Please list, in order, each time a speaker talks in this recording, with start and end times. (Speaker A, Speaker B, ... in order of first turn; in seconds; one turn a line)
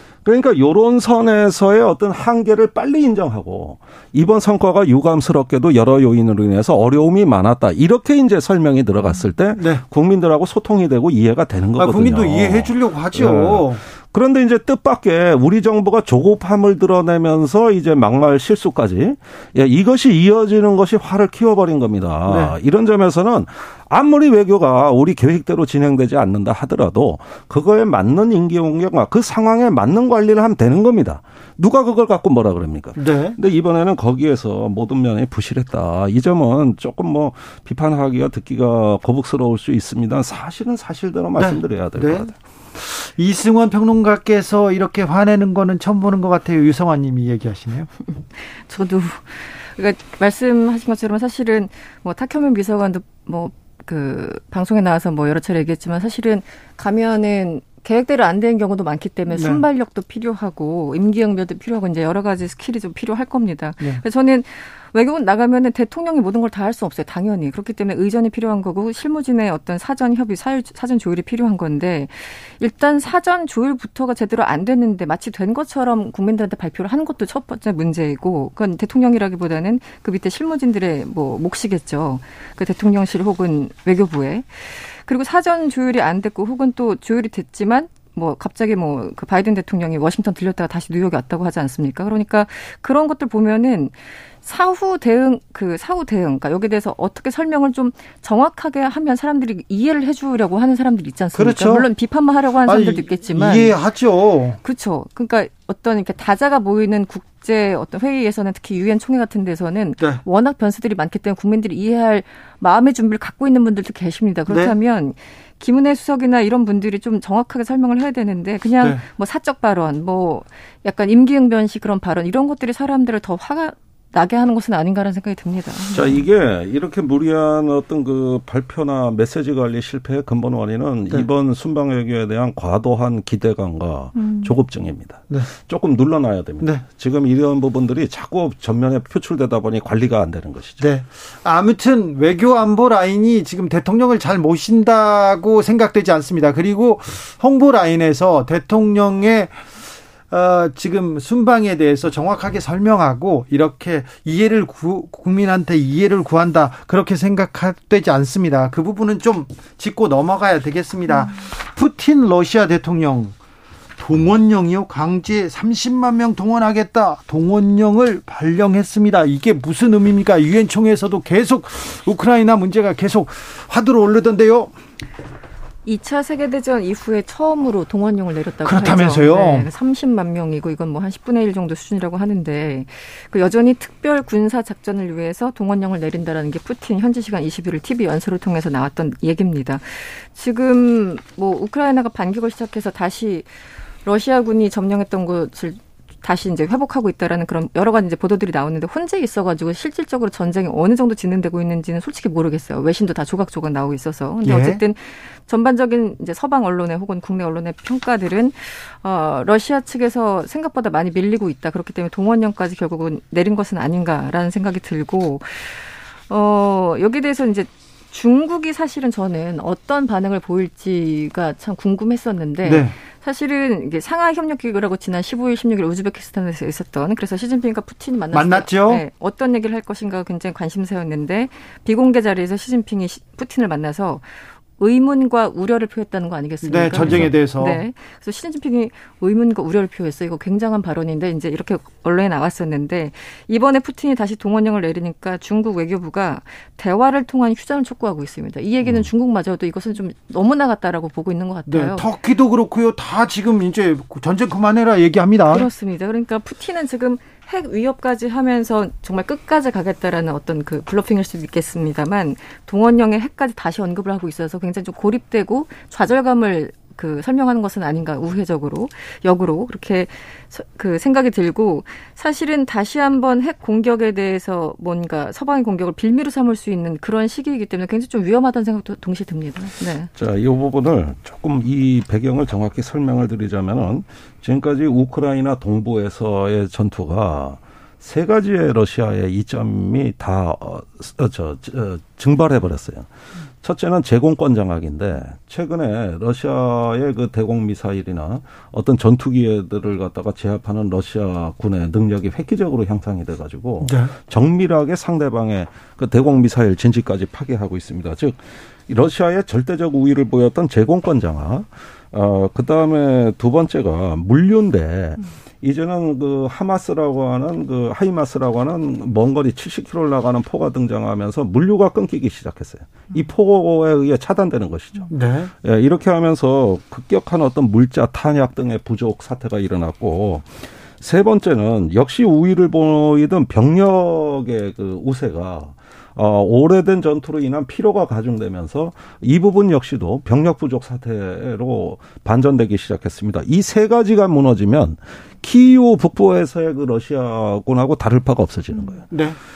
Speaker A: 0.2-42.3
Speaker B: 9.6-9.8
Speaker B: 11.8-13.8
Speaker B: 22.3-22.6
Speaker B: 33.0-33.4
Speaker B: 41.4-47.9
Speaker C: 48.2-103.8
Speaker B: 59.3-59.6
Speaker B: 101.3-101.8
Speaker B: 102.7-104.6
Speaker C: 104.6-126.3
Speaker B: 114.5-114.7
Speaker A: 125.9-140.9
Speaker C: 134.1-134.6
Speaker B: 140.8-149.7
Speaker B: 150.3-163.3
Speaker B: 164.0-174.8
Speaker C: 175.8-252.1
Speaker B: 178.6-179.7
Speaker B: 204.4-204.8
Speaker B: 222.6-222.9
Speaker B: 228.3-229.0
Speaker B: 236.6-237.8
Speaker A: 236.9-237.4
Speaker B: 251.7-255.7
Speaker C: 255.5-280.1
Speaker A: 280.1-293.1
Speaker A: 293.6-325.1
Speaker B: 303.8-304.1
Speaker B: 325.1-325.5
Speaker A: 325.6-349.0
Speaker B: 349.1-349.4